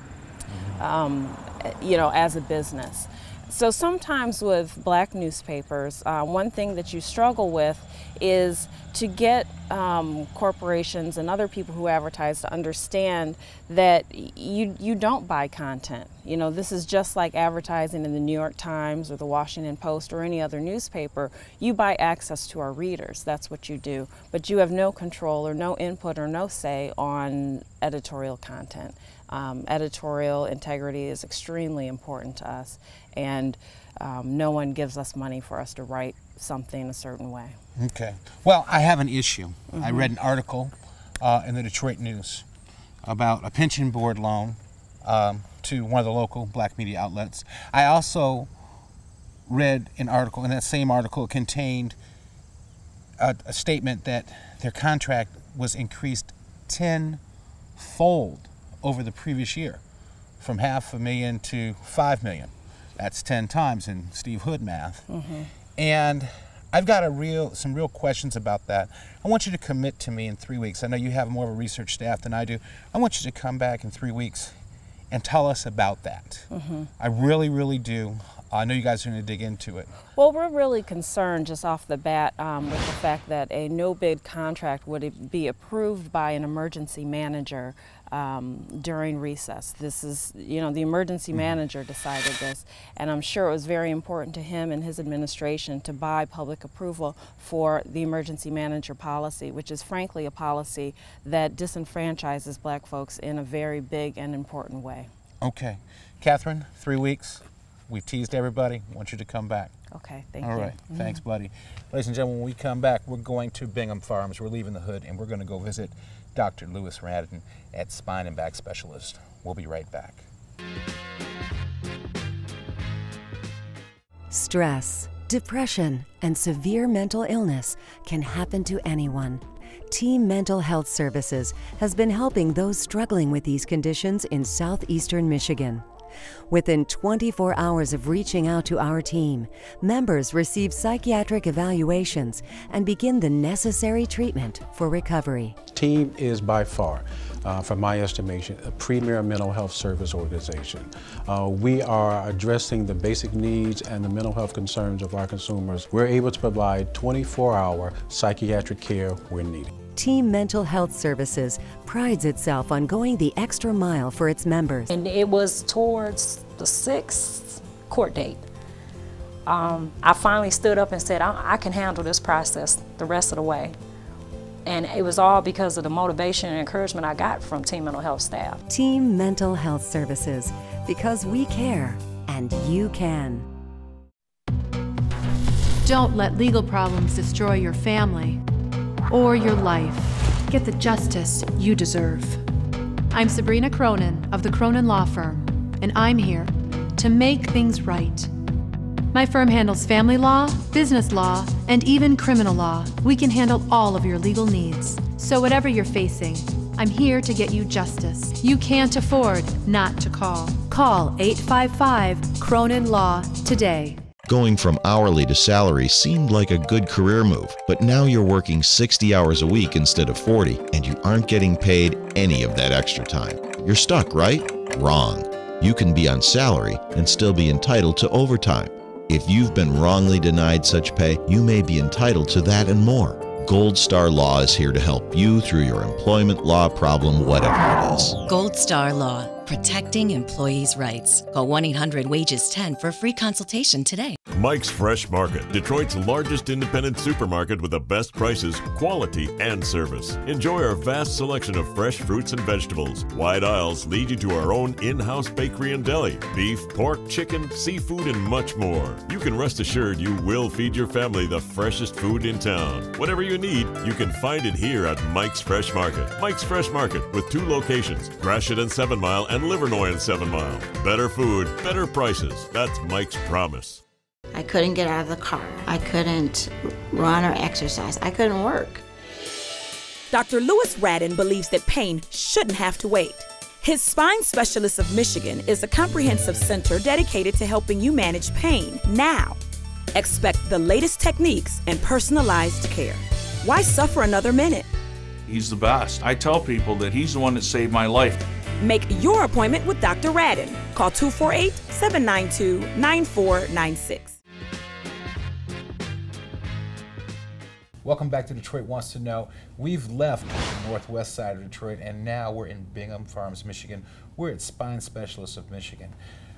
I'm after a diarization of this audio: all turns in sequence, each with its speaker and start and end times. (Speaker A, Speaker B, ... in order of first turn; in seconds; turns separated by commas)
Speaker A: 0.5-0.8, Speaker B: 0.8-37.6, Speaker A: 37.8-42.5, Speaker B: 39.7-40.1, Speaker A: 43.0-48.5, Speaker A: 49.5-52.0, Speaker A: 53.2-57.2, Speaker A: 57.8-59.8, Speaker A: 60.4-65.1, Speaker B: 65.1-65.5, Speaker A: 65.8-74.5, Speaker A: 75.1-79.9, Speaker B: 76.5-76.9, Speaker B: 80.2-105.1, Speaker A: 105.4-109.7, Speaker B: 109.9-111.2, Speaker A: 110.4-120.3, Speaker C: 124.3-135.8, Speaker C: 136.5-145.6, Speaker D: 145.7-159.7, Speaker C: 160.0-164.9, Speaker E: 164.9-168.4, Speaker E: 169.5-173.8, Speaker E: 174.7-178.6, Speaker C: 178.7-183.5, Speaker F: 185.8-188.4, Speaker F: 189.1-192.4, Speaker F: 193.1-198.3, Speaker F: 199.1-214.0, Speaker G: 214.3-238.2, Speaker H: 238.3-244.2, Speaker I: 244.3-273.8, Speaker J: 274.3-278.8, Speaker K: 280.1-289.4, Speaker K: 289.9-294.7, Speaker L: 295.3-298.2, Speaker K: 298.6-304.2, Speaker A: 307.8-315.9